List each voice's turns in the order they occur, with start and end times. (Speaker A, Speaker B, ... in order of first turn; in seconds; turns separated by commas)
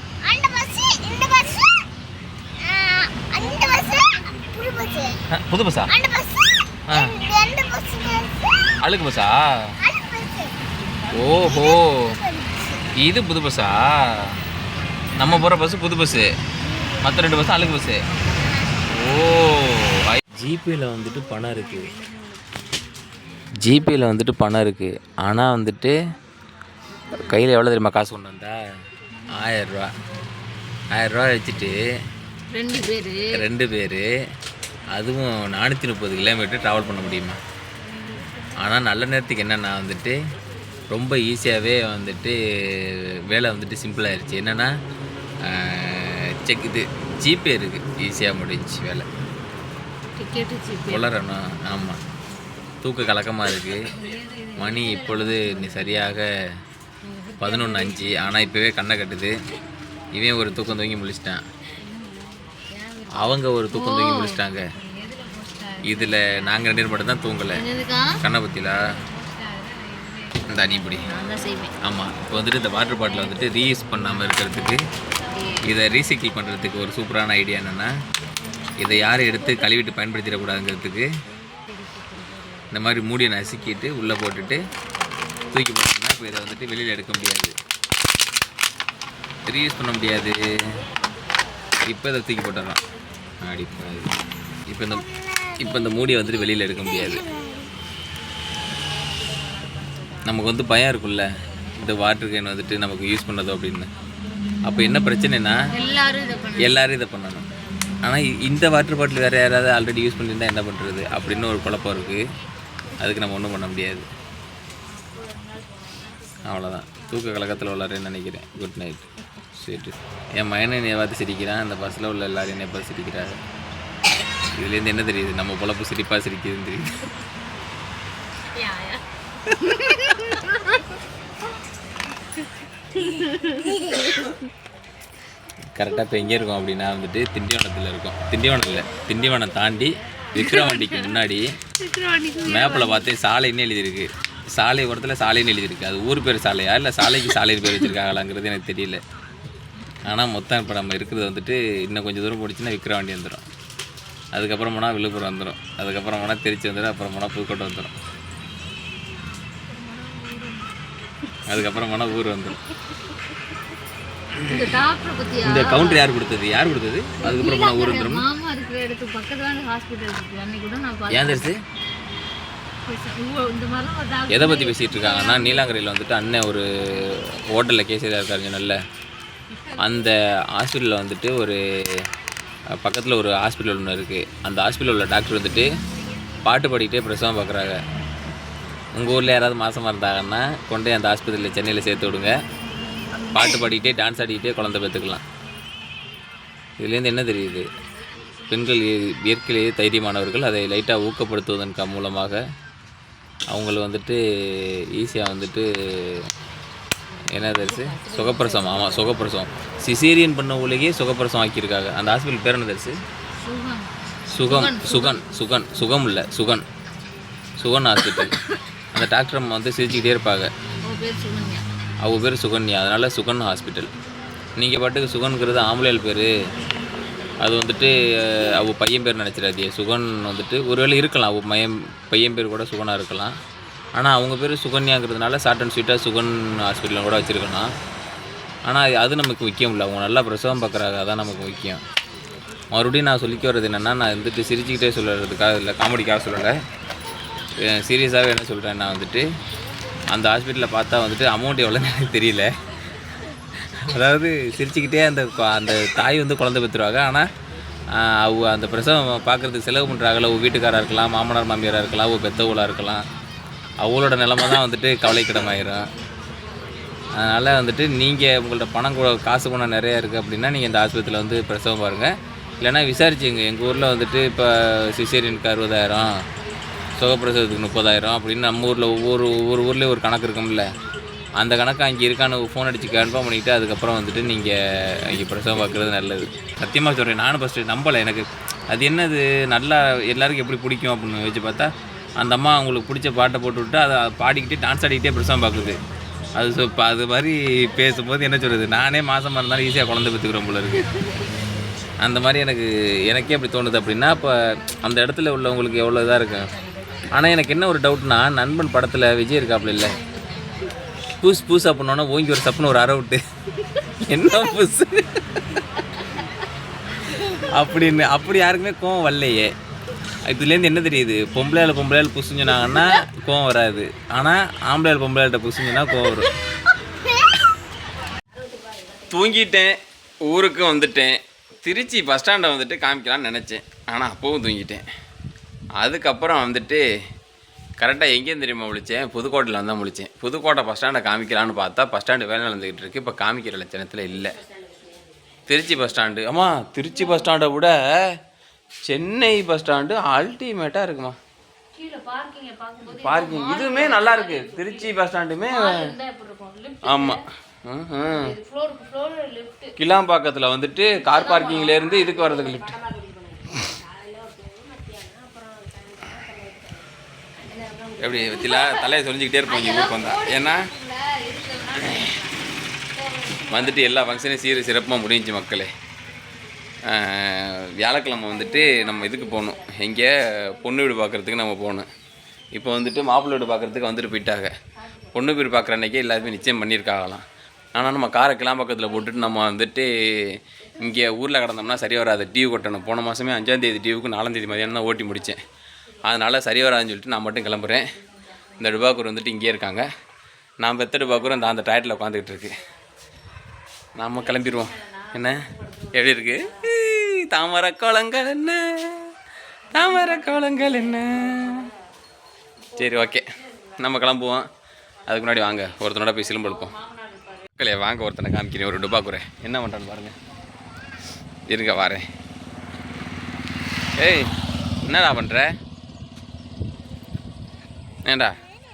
Speaker A: 0.2-1.9, Speaker A: 2.6-5.2, Speaker B: 5.3-5.9, Speaker A: 5.9-8.7, Speaker B: 8.8-9.7, Speaker A: 9.8-10.6, Speaker B: 11.1-12.1, Speaker A: 11.4-12.9, Speaker B: 13.0-14.4, Speaker B: 15.2-16.3, Speaker B: 17.0-18.0, Speaker B: 18.9-21.9, Speaker B: 23.6-25.9, Speaker B: 27.1-28.6, Speaker B: 29.3-29.9, Speaker B: 30.9-31.8, Speaker C: 32.5-33.4, Speaker B: 33.3-34.0, Speaker B: 34.9-37.4, Speaker B: 38.6-40.2, Speaker B: 40.9-44.7, Speaker B: 45.5-49.1, Speaker C: 50.2-51.1, Speaker B: 50.9-52.0, Speaker B: 52.8-53.9, Speaker C: 53.9-55.9, Speaker B: 54.6-56.3, Speaker C: 57.0-58.0, Speaker B: 57.4-59.3, Speaker B: 60.1-61.4, Speaker C: 61.9-66.4, Speaker B: 63.1-64.7, Speaker B: 65.8-67.6, Speaker C: 67.5-68.2, Speaker B: 68.2-68.8, Speaker C: 69.2-71.8, Speaker B: 70.5-71.1, Speaker B: 71.8-74.8, Speaker C: 75.3-75.6, Speaker B: 75.7-77.9, Speaker B: 78.8-81.1, Speaker B: 82.7-84.6, Speaker B: 85.5-87.5, Speaker B: 89.5-90.4, Speaker B: 91.9-92.8, Speaker B: 93.4-94.2, Speaker B: 94.7-95.1, Speaker A: 95.2-97.7, Speaker B: 95.6-97.2, Speaker B: 100.2-101.3, Speaker B: 101.8-103.9, Speaker B: 104.7-105.5, Speaker C: 105.7-106.8, Speaker B: 106.6-107.5, Speaker B: 108.0-112.2, Speaker B: 113.0-114.1, Speaker B: 116.5-123.4, Speaker B: 124.6-127.0, Speaker C: 128.6-129.0, Speaker C: 129.6-130.6, Speaker C: 133.0-134.3, Speaker B: 135.8-141.5, Speaker C: 140.3-141.2, Speaker C: 141.8-143.1, Speaker B: 142.4-149.0, Speaker B: 150.1-153.4, Speaker B: 154.3-157.9, Speaker C: 159.7-160.7, Speaker B: 161.5-162.6, Speaker B: 164.3-164.8, Speaker C: 164.5-166.1, Speaker B: 165.4-168.3, Speaker C: 167.2-171.5, Speaker B: 171.1-171.6, Speaker C: 172.9-175.7, Speaker B: 174.3-178.8, Speaker B: 179.8-182.0, Speaker B: 182.8-185.7, Speaker B: 186.4-187.8, Speaker B: 188.9-192.4, Speaker B: 193.3-195.2, Speaker B: 196.8-197.7, Speaker B: 198.5-202.4, Speaker B: 203.5-206.2, Speaker B: 207.3-213.0, Speaker C: 207.5-209.0, Speaker C: 213.4-213.9, Speaker B: 214.3-216.6, Speaker C: 214.5-215.2, Speaker B: 217.6-218.3, Speaker B: 218.9-220.5, Speaker C: 220.8-221.7, Speaker B: 222.0-223.9, Speaker B: 224.6-226.3, Speaker B: 227.4-233.3, Speaker B: 234.0-237.7, Speaker B: 238.7-241.8, Speaker B: 242.7-246.6, Speaker B: 247.6-249.2, Speaker B: 250.1-252.5, Speaker B: 253.8-257.3, Speaker B: 257.9-263.0, Speaker B: 263.8-265.9, Speaker B: 267.2-272.1, Speaker B: 272.6-276.1, Speaker B: 277.0-280.6, Speaker B: 281.4-295.8, Speaker B: 296.4-300.9, Speaker B: 302.0-306.5, Speaker B: 307.1-310.0, Speaker B: 311.2-313.2, Speaker B: 314.1-315.6, Speaker A: 317.1-317.6, Speaker B: 317.5-319.5, Speaker B: 320.3-326.3, Speaker A: 326.9-327.5, Speaker B: 329.1-329.7, Speaker B: 330.2-334.8, Speaker B: 335.8-336.8, Speaker B: 337.8-344.4, Speaker B: 345.5-348.2, Speaker B: 348.9-351.1, Speaker C: 351.8-354.9, Speaker B: 352.9-355.9, Speaker C: 355.5-357.2, Speaker B: 356.8-358.4, Speaker C: 358.1-359.7, Speaker B: 359.8-362.8, Speaker C: 361.0-361.9, Speaker C: 364.4-365.9, Speaker C: 367.5-368.9, Speaker B: 368.0-370.7, Speaker C: 369.5-372.3, Speaker B: 371.8-372.2, Speaker C: 373.0-374.1, Speaker B: 373.5-375.7, Speaker B: 376.9-381.9, Speaker B: 382.5-384.5, Speaker B: 385.1-387.2, Speaker B: 387.8-395.4, Speaker B: 396.1-397.8, Speaker B: 398.6-399.9, Speaker B: 400.6-402.5, Speaker B: 404.0-409.1, Speaker B: 409.7-411.7, Speaker B: 412.8-413.2, Speaker B: 413.8-414.4, Speaker B: 415.1-416.7, Speaker B: 417.6-420.1, Speaker B: 421.5-422.0, Speaker B: 424.0-424.3, Speaker B: 424.9-425.5, Speaker B: 428.1-428.4